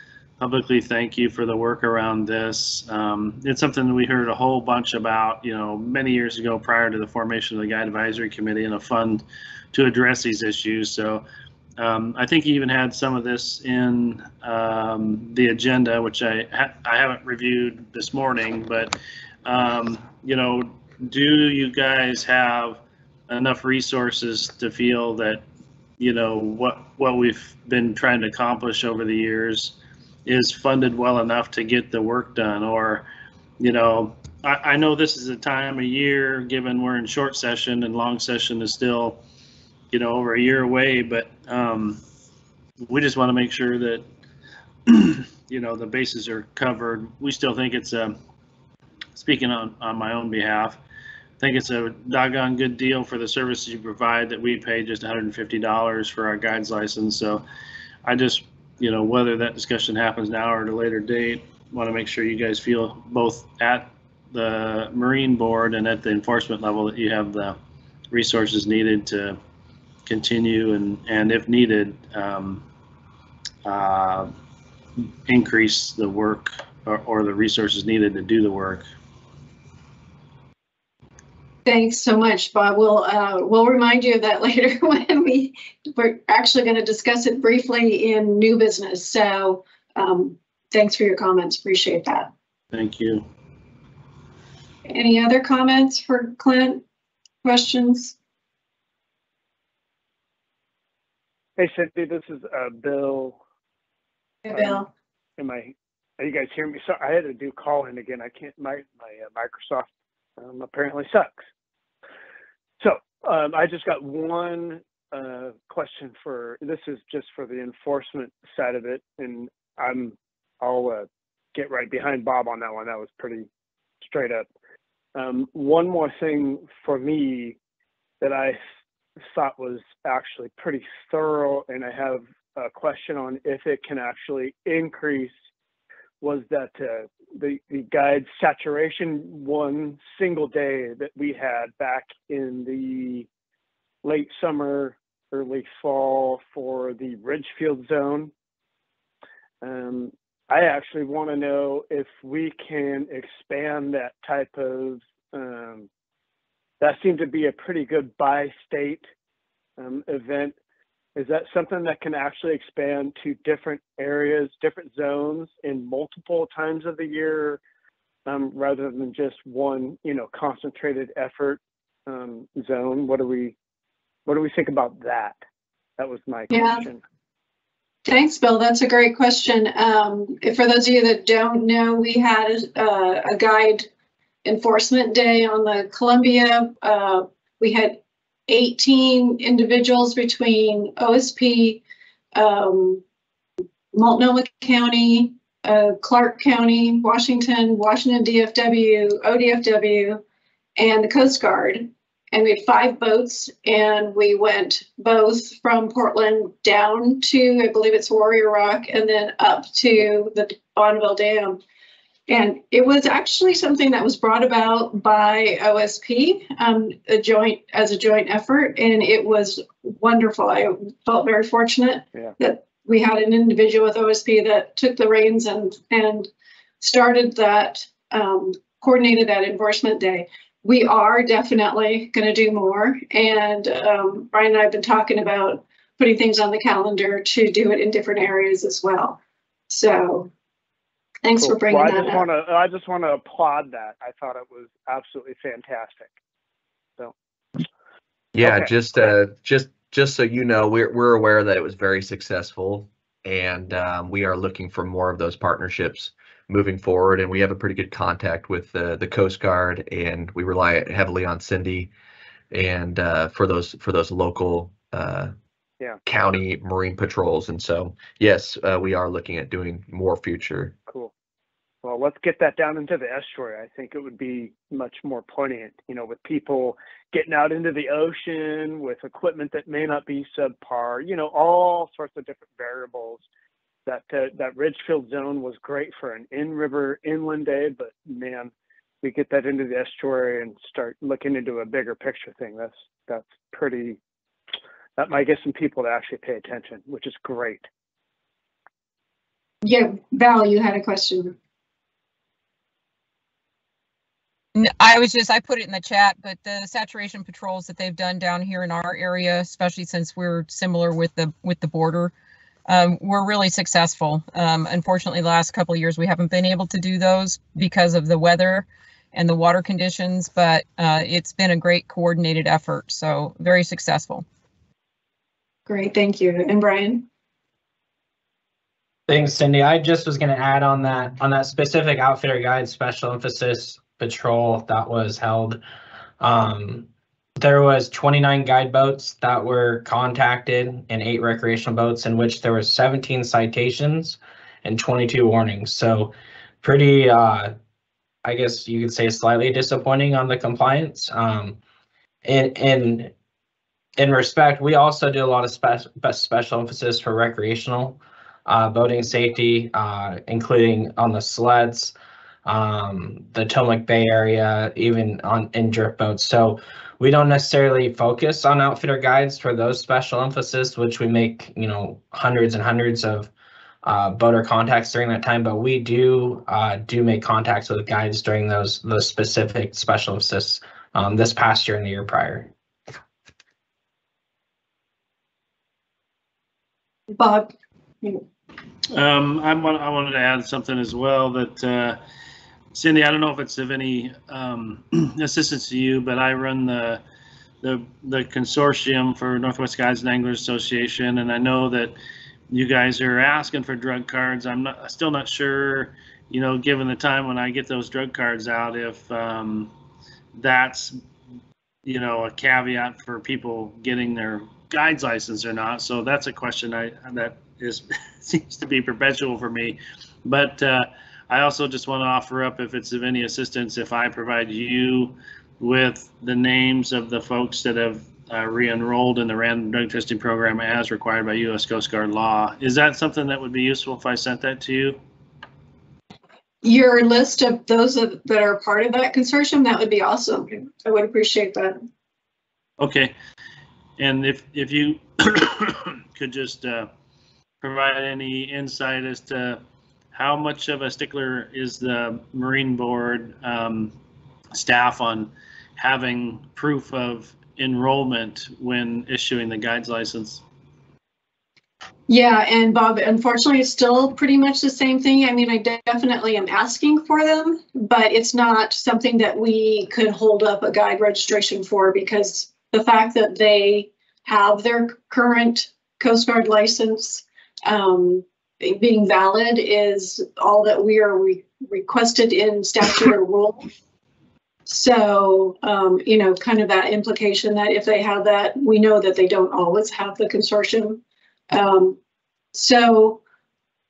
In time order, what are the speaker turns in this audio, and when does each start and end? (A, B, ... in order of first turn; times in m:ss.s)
0:00.4-0:11.2 A
0:11.8-0:25.4 A
0:26.0-0:33.1 A
0:33.6-0:39.2 A
0:39.9-0:42.0 A
0:42.9-0:44.0 A
0:44.9-0:48.2 A
0:49.2-0:50.8 A
0:51.4-0:57.4 A
0:58.0-1:07.6 A
1:08.1-1:09.4 A
1:10.1-1:12.6 A
1:13.6-1:14.3 A
1:15.3-1:18.9 A
1:21.6-1:32.3 B
1:32.7-1:33.2 A
1:34.9-1:36.8 B
1:37.4-1:38.2 B
1:41.6-1:43.4 C
1:44.4-1:44.9 B
1:44.5-1:44.9 C
1:45.4-1:51.4 C
1:52.8-2:03.5 C
2:04.0-2:04.5 C
2:05.2-2:07.6 C
2:08.2-2:08.6 C
2:09.3-2:15.3 C
2:16.2-2:23.3 C
2:24.0-2:28.3 C
2:29.6-2:35.9 C
2:36.8-2:39.0 C
2:39.8-2:40.6 C
2:41.2-2:47.6 C
2:48.3-2:53.6 C
2:54.3-2:55.4 C
2:56.0-2:57.0 C
2:56.5-2:56.9 B
2:58.1-3:03.9 B
3:04.4-3:11.8 B
3:12.4-3:13.0 B
3:13.9-3:20.2 B
3:20.8-3:31.6 B
3:32.3-3:46.3 B
3:46.8-4:00.3 B
4:01.2-4:02.2 B
4:01.4-4:06.1 C
4:07.0-4:07.6 C
4:08.4-4:21.9 D
4:08.4-4:08.7 C
4:22.5-4:25.3 D
4:26.1-4:30.8 D
4:30.9-4:31.1 C
4:31.8-4:43.2 C
4:43.9-4:54.0 C
4:55.0-4:57.7 C
4:59.6-5:01.4 B
5:04.6-5:12.1 E
5:12.7-5:24.2 E
5:25.7-5:27.0 B
5:29.1-5:35.6 F
5:36.2-5:36.9 F
5:37.4-5:47.5 F
5:48.2-5:51.6 F
5:52.2-5:53.1 F
5:54.0-6:01.9 F
6:02.5-6:13.3 F
6:13.8-6:22.5 F
6:27.1-6:28.2 B
6:28.9-6:32.0 A
6:32.7-6:37.0 A
6:37.6-6:42.0 A
6:42.5-6:49.7 A
6:50.4-6:51.0 A
6:51.8-7:15.0 A
7:16.6-7:21.8 B
7:22.8-7:23.1 A
7:24.0-7:26.9 A
7:27.6-7:29.6 A
7:30.1-7:33.9 A
7:34.5-7:40.4 A
7:42.1-8:03.7 B
8:04.7-8:12.0 B
8:12.5-8:13.2 B